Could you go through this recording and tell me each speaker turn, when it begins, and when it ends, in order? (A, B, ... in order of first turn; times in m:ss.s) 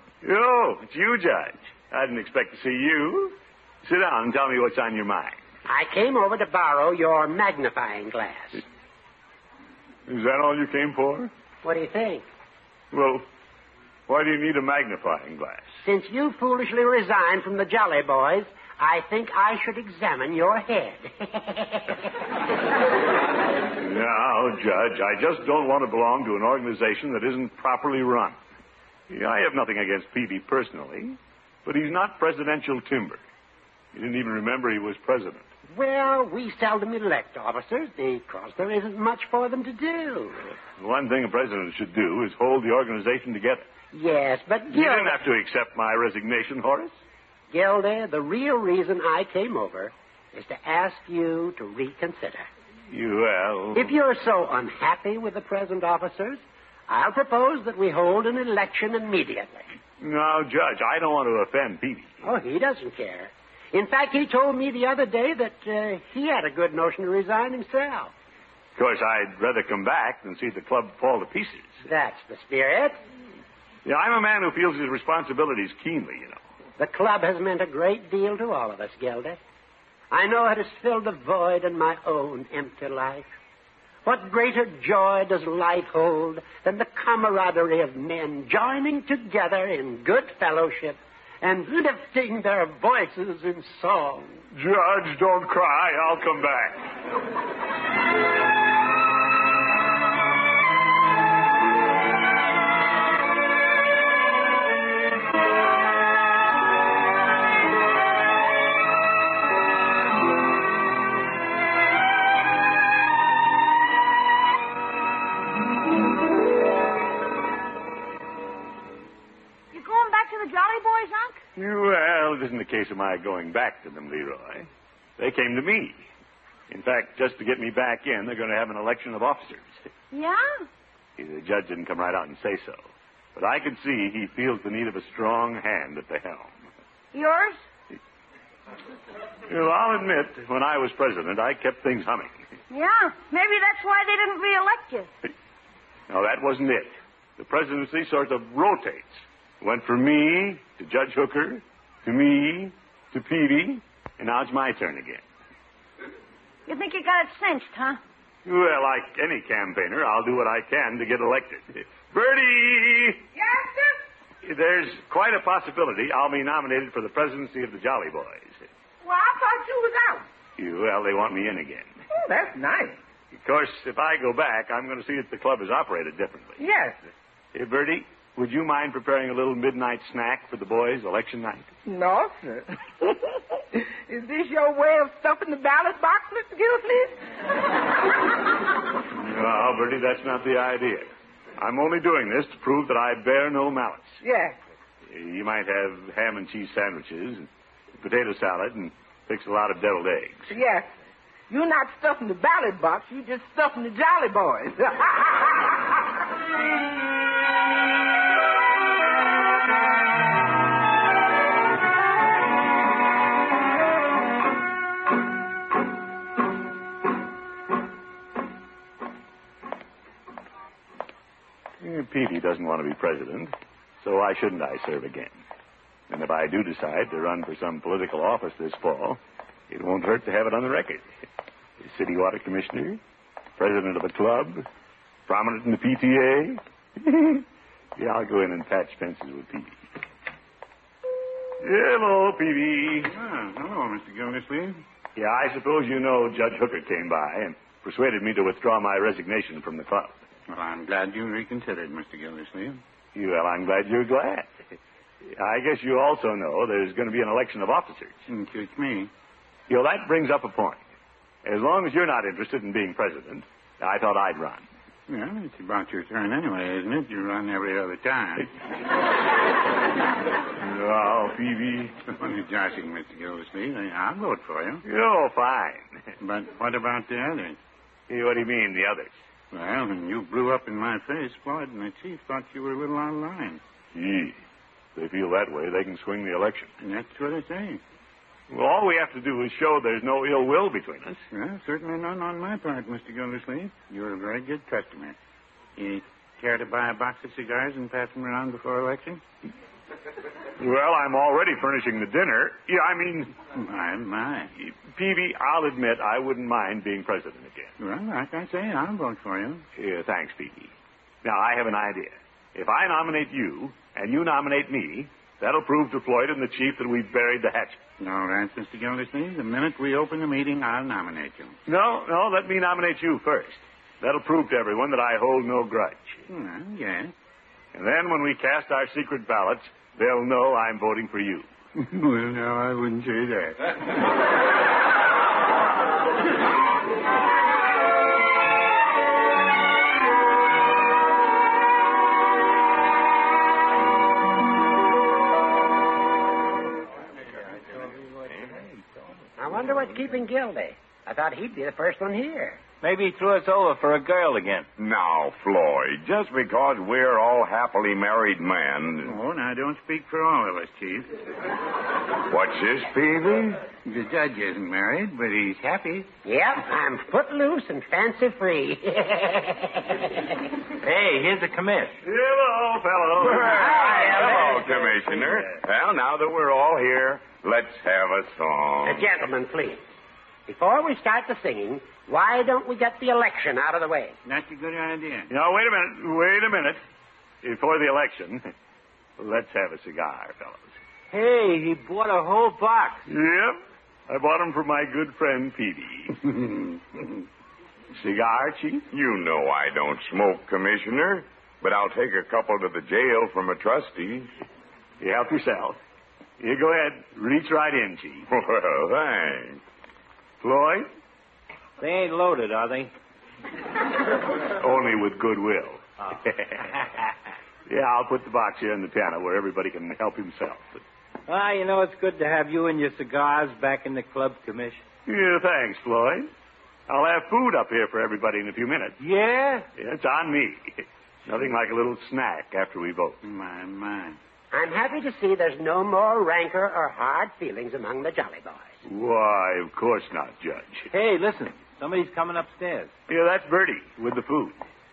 0:00.2-0:05.4 A
0:05.6-0:08.6 B
0:10.1-0:11.3 A
0:11.6-0:12.3 B
0:12.9-0:13.2 A
0:14.1-0:15.7 A
0:15.8-0:22.1 B
0:23.7-0:28.4 A
0:29.1-0:33.2 A
0:33.9-0:35.5 A
0:35.7-0:40.4 B
0:40.7-0:43.7 A
0:43.9-0:45.2 B
0:44.7-0:46.9 A
0:47.5-0:52.5 B
0:52.9-0:53.9 A
0:53.7-0:59.6 B
1:00.0-1:02.2 A
1:02.2-1:08.1 B
1:08.8-1:11.8 A
1:11.8-1:13.0 B
1:13.8-1:16.4 A
1:16.8-1:19.4 B
1:20.1-1:23.3 B
1:24.0-1:34.4 B
1:34.5-1:36.9 A
1:59.7-2:01.4 C
2:01.6-2:06.1 A
2:06.7-2:09.8 A
2:10.1-2:10.6 C
2:11.2-2:16.7 A
2:17.1-2:17.6 C
2:19.5-2:22.4 A
2:22.7-2:25.1 C
2:26.1-2:35.2 A
2:36.7-2:38.0 C
2:38.4-2:43.2 A
2:43.3-2:44.0 D
2:44.4-2:48.7 A
2:49.0-2:50.2 D
2:50.6-2:52.0 A
2:52.1-2:53.0 D
2:53.3-2:56.6 A
2:56.6-2:57.0 D
2:57.5-3:01.7 A
3:01.8-3:07.2 D
3:09.1-3:14.2 A
3:14.2-3:14.6 D
3:15.0-3:17.5 A
3:18.0-3:20.5 A
3:20.5-3:20.9 D
3:21.5-3:26.0 D
3:41.8-3:45.4 A
3:46.1-3:51.1 A
3:51.8-3:53.0 A
3:53.6-3:54.6 A
3:55.3-3:57.4 A
3:58.0-3:59.8 A
4:01.6-4:03.1 A
4:03.0-4:04.8 E
4:05.2-4:10.2 A
4:10.5-4:12.8 E
4:13.1-4:14.5 A
4:15.2-4:18.2 A
4:18.3-4:19.1 E
4:19.7-4:20.8 A
4:21.4-4:24.7 A
4:25.1-4:28.5 E
4:30.6-4:32.1 A
4:32.1-4:34.8 E
4:34.8-4:36.0 A
4:36.2-4:37.6 E
4:38.1-4:39.1 A
4:39.5-4:43.6 E
4:43.9-4:44.4 A
4:44.9-4:46.7 A
4:46.8-4:47.8 E
4:48.5-4:51.2 A
4:51.3-4:55.2 E
4:55.8-4:59.2 E
5:00.6-5:03.3 A
5:03.5-5:04.5 E
5:04.6-5:07.8 A
5:07.8-5:09.6 E
5:09.8-5:17.8 A
5:18.0-5:21.6 E
5:21.6-5:26.2 A
5:26.3-5:27.1 E
5:27.7-5:31.5 A
5:31.8-5:33.7 E
5:47.8-5:48.2 E
5:49.4-5:52.6 B
5:52.8-5:54.7 F
5:54.8-5:59.1 G
5:59.0-6:01.1 E
6:02.3-6:03.6 G
6:03.8-6:06.1 E
6:06.2-6:10.3 B
6:10.8-6:12.0 F
6:12.0-6:14.6 A
6:13.2-6:19.1 G
6:13.3-6:14.7 B
6:18.8-6:19.8 B
6:20.5-6:24.2 B
6:24.2-6:25.3 E
6:25.3-6:26.8 A
6:27.4-6:28.5 A
6:29.2-6:30.7 A
6:31.1-6:33.0 F
6:33.1-6:36.2 A
6:36.4-6:36.7 E
6:37.9-6:38.8 A
6:38.9-6:44.3 G
6:45.0-6:45.8 A
6:46.4-6:48.3 A
6:48.3-6:49.6 G
6:50.4-6:50.9 A
6:51.8-6:52.9 F
6:54.5-6:56.7 A
6:57.7-7:00.8 A
7:01.3-7:04.8 F
7:05.0-7:06.3 A
7:06.9-7:09.0 A
7:09.0-7:09.7 F
7:09.8-7:13.2 A
7:13.2-7:14.2 E
7:14.5-7:18.8 B
7:18.8-7:20.9 A
7:20.9-7:22.9 F
7:23.1-7:24.6 A